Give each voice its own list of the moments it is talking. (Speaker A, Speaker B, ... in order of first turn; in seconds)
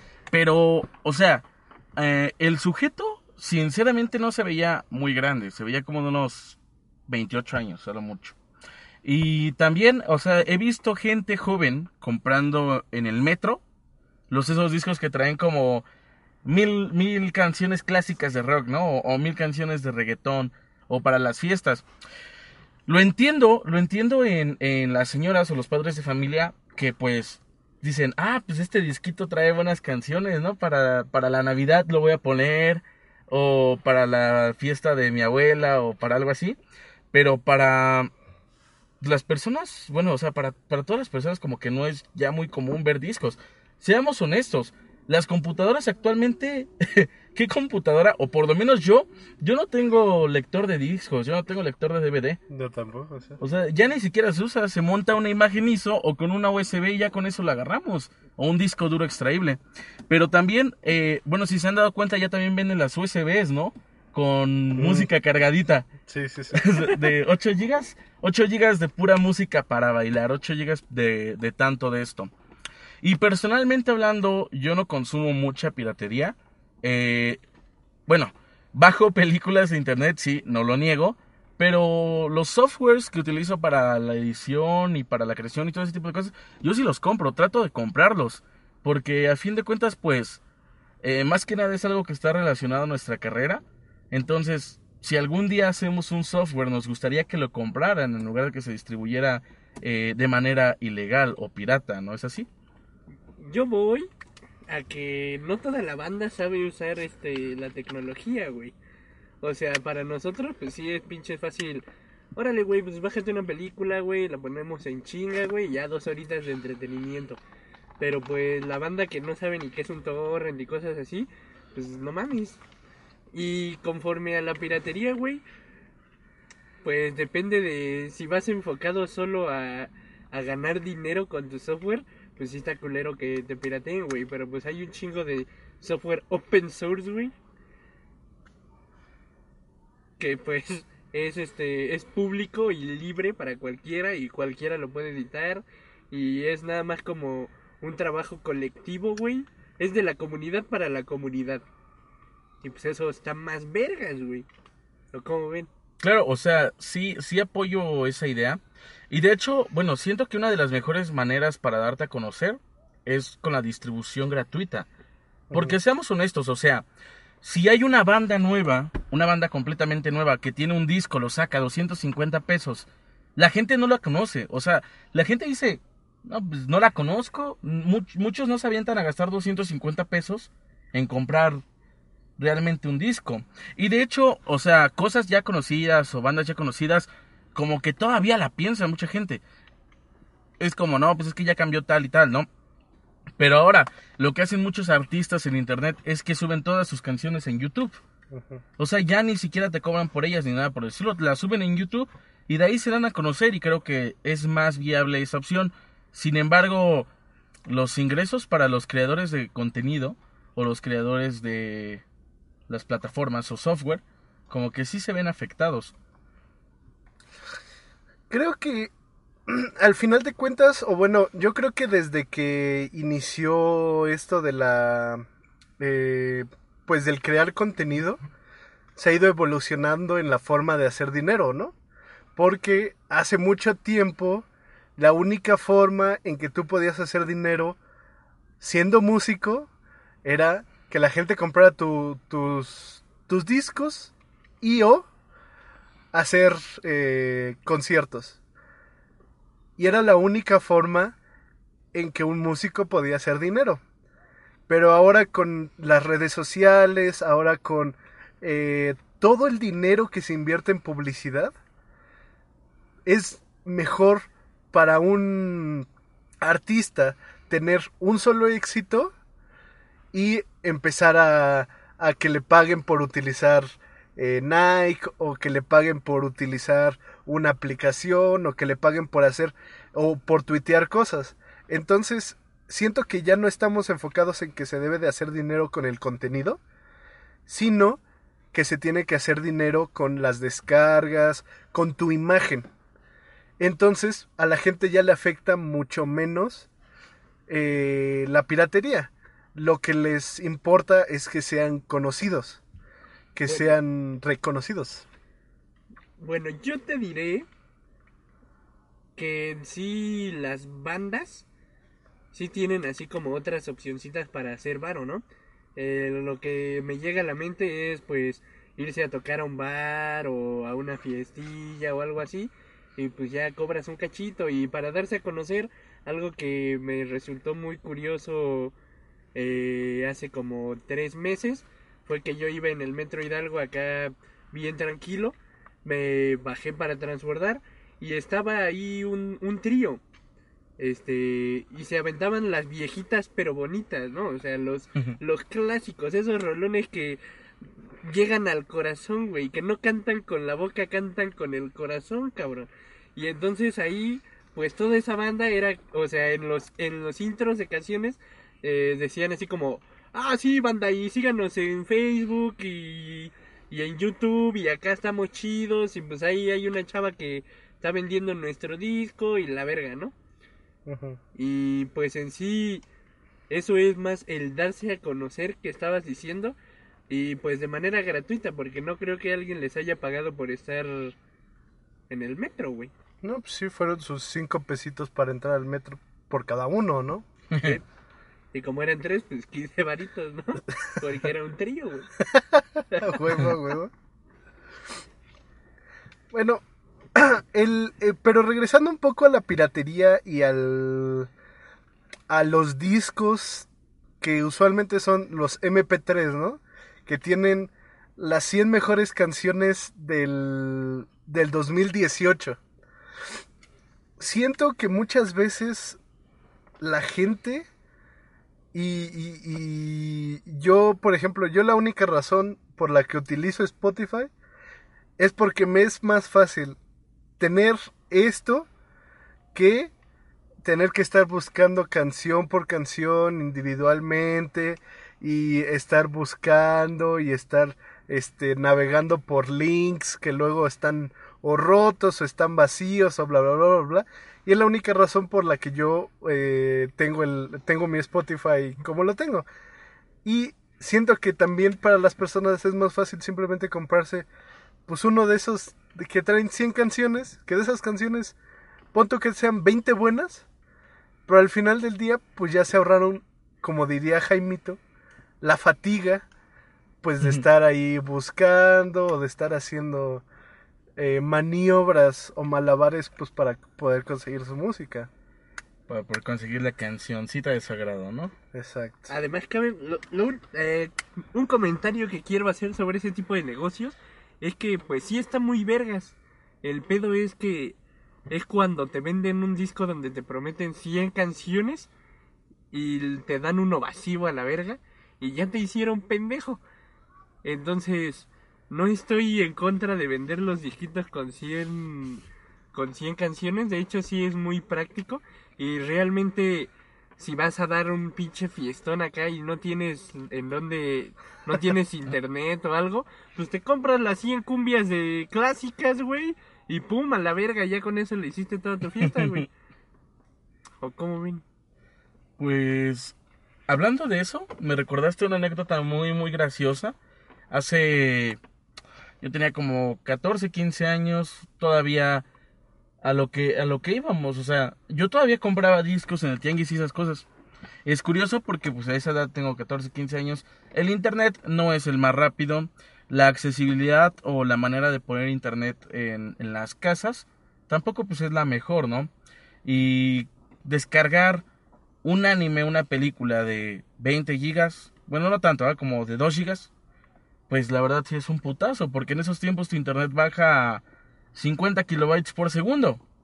Speaker A: 0.3-1.4, 2.0-6.6, 7.1-8.3, 9.0-13.6, 14.3-15.8, 16.4-21.8, 22.9-36.6, 37.1-38.1, 39.0-52.4, 53.4-65.9, 66.5-72.3, 73.0-77.4, 78.1-90.4, 91.0-102.5, 156.0-164.9, 165.5-166.8, 167.4-181.6, 182.4-189.4, 190.6-192.5, 193.4-198.0, 198.8-207.1, 207.7-212.0, 212.7-215.9, 387.5-387.8, 475.9-478.3, 519.0-519.3, 522.4-523.2, 523.7-527.0, 527.5-528.4, 529.2-532.2, 533.0-537.3, 537.9-549.1, 549.6-551.4, 552.0-556.7, 557.5-560.8, 561.4-563.0
Speaker B: 52.5-53.4, 64.8-65.1, 66.1-67.0, 165.5-165.8, 198.3-198.6, 218.3-218.9, 219.5-225.3, 225.8-228.2, 229.0-231.8, 232.4-237.8, 238.6-239.7, 240.2-245.1, 246.1-248.4, 249.8-251.2, 251.9-253.8, 254.7-261.5, 263.1-265.9, 266.4-269.1, 270.1-286.6, 287.5-288.0, 288.5-292.7, 293.6-296.7, 297.5-302.6, 303.4-305.1, 370.9-371.2, 383.2-387.3, 393.0-393.9, 396.3-396.6, 397.1-401.3, 402.3-403.7, 404.2-412.6, 414.2-416.0, 416.8-417.7, 418.7-424.3, 425.2-426.8, 427.4-428.7, 429.5-429.9, 430.6-449.5, 450.2-454.3, 454.9-458.4, 458.9-460.5, 461.3-464.8, 465.4-466.3, 467.0-470.2, 471.0-475.1, 478.5-479.1
Speaker C: 103.4-104.1, 104.7-108.8, 109.4-111.8, 112.4-117.4, 118.0-122.6, 123.3-125.4, 126.8-137.3, 140.2-151.7, 152.6-154.5, 155.1-155.7, 303.5-303.7, 306.2-307.5, 309.2-311.5, 312.3-315.2, 315.8-328.7, 329.4-340.0, 340.8-347.2, 348.0-370.1, 371.4-372.9, 373.5-376.6, 377.1-381.1, 382.1-382.9, 388.5-392.1, 392.9-393.2, 479.1-487.8, 488.3-491.9, 492.7-496.6, 497.4-519.5, 520.8-521.4